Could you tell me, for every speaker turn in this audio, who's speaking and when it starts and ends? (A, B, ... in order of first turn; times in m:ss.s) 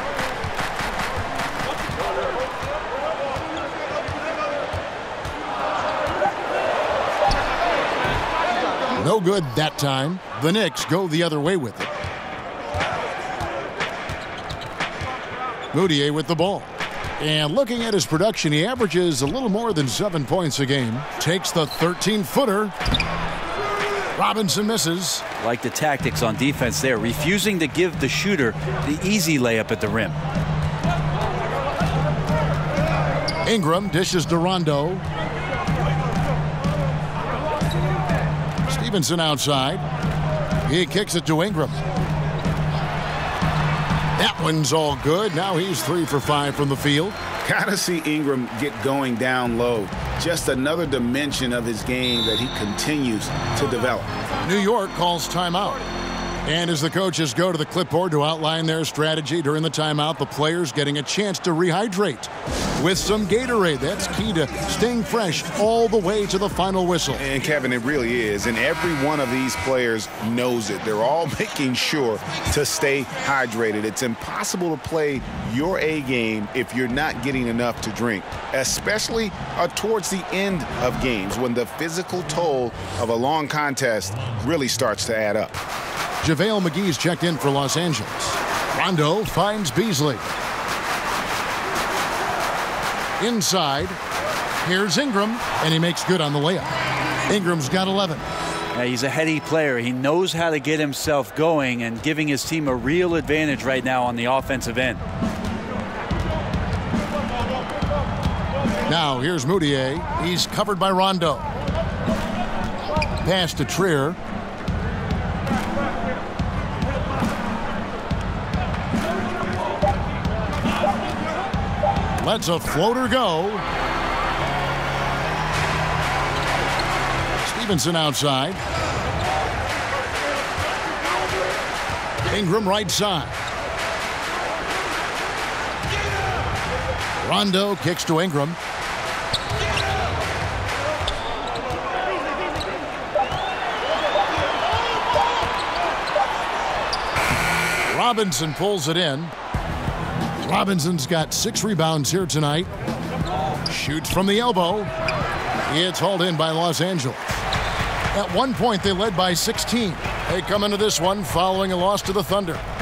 0:08.9-0:11.9 A
0:15.7-0:22.8 A
0:24.1-0:25.2 A
0:25.4-0:30.2 B
0:33.5-0:35.0 A
0:38.7-0:39.8 A
0:40.6-0:41.8 A
0:44.2-0:47.2 A
0:47.4-0:54.1 C
0:54.4-0:55.8 A
0:56.4-1:07.2 A
1:07.2-1:25.6 C
1:26.2-1:30.3 A
1:33.2-1:34.0 A
1:34.6-1:36.7 A
1:37.3-1:38.2 A
1:38.8-1:45.0 B
1:48.9-1:51.5 A
1:53.2-1:54.2 A
2:02.2-2:03.6 A
2:07.4-2:08.6 A
2:12.3-2:13.4 A
2:17.2-2:18.6 A
2:27.9-2:29.3 A
2:30.4-2:32.7 A
2:33.6-2:34.9 A
2:35.7-2:37.4 A
2:38.1-2:42.6 A